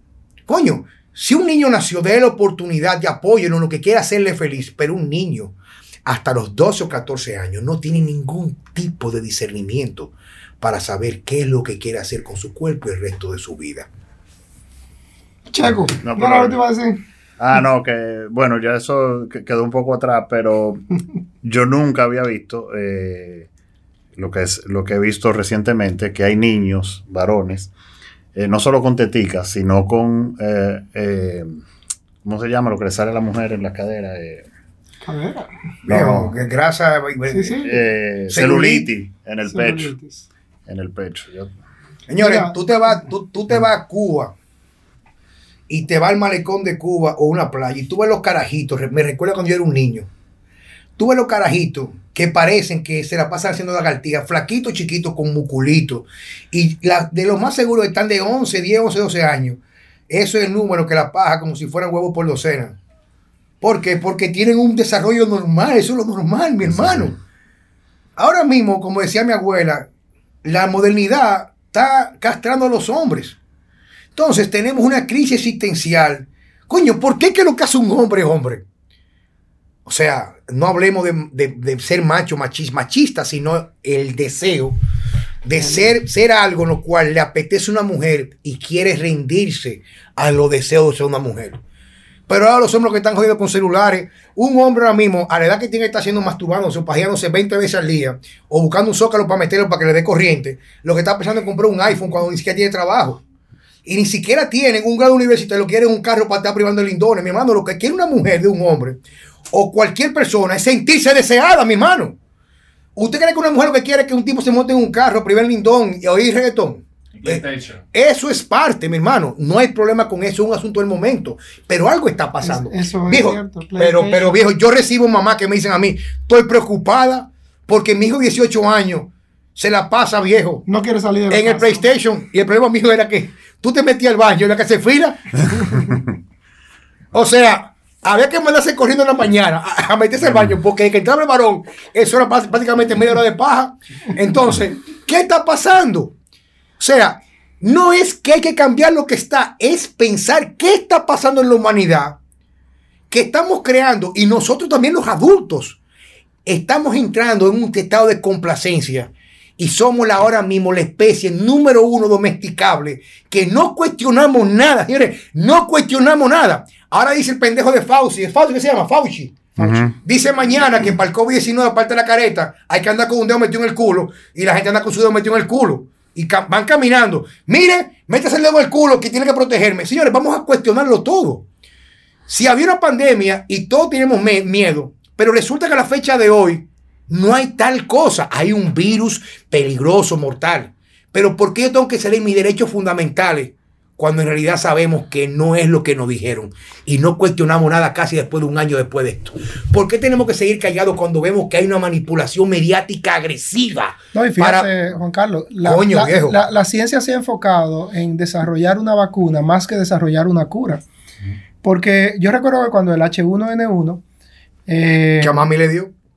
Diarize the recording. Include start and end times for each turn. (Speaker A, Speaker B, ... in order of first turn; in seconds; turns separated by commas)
Speaker A: 0.5-5.5, Speaker A: 6.0-13.9, Speaker B: 15.5-17.0, Speaker C: 16.0-16.6, Speaker C: 17.4-20.8, Speaker C: 21.4-23.5, Speaker C: 24.2-27.7, Speaker C: 28.3-31.5, Speaker C: 32.2-34.5, Speaker B: 35.0-35.5, Speaker C: 35.9-36.3, Speaker A: 35.9-37.7, Speaker B: 37.3-37.8, Speaker C: 37.6-39.9, Speaker A: 38.3-38.9, Speaker B: 39.5-40.2, Speaker C: 40.7-41.5, Speaker A: 42.1-44.3, Speaker B: 42.2-42.5, Speaker A: 45.7-50.1, Speaker A: 51.0-62.8, Speaker A: 63.6-67.2, Speaker A: 68.2-69.9, Speaker A: 70.4-73.4, Speaker A: 74.2-78.6, Speaker A: 79.8-84.8, Speaker A: 85.4-91.6, Speaker A: 92.3-103.2, Speaker A: 103.8-109.0, Speaker A: 109.5-112.2, Speaker A: 113.0-130.6, Speaker B: 122.4-124.3, Speaker B: 130.7-131.8, Speaker A: 131.3-136.1, Speaker A: 137.1-146.1, Speaker A: 146.8-152.2, Speaker A: 153.1-155.8, Speaker A: 156.4-181.4, Speaker C: 169.6-169.9, Speaker A: 182.3-204.7, Speaker B: 204.1-210.8, Speaker A: 205.6-206.4, Speaker B: 211.6-214.0, Speaker B: 214.7-215.5, Speaker A: 215.2-215.9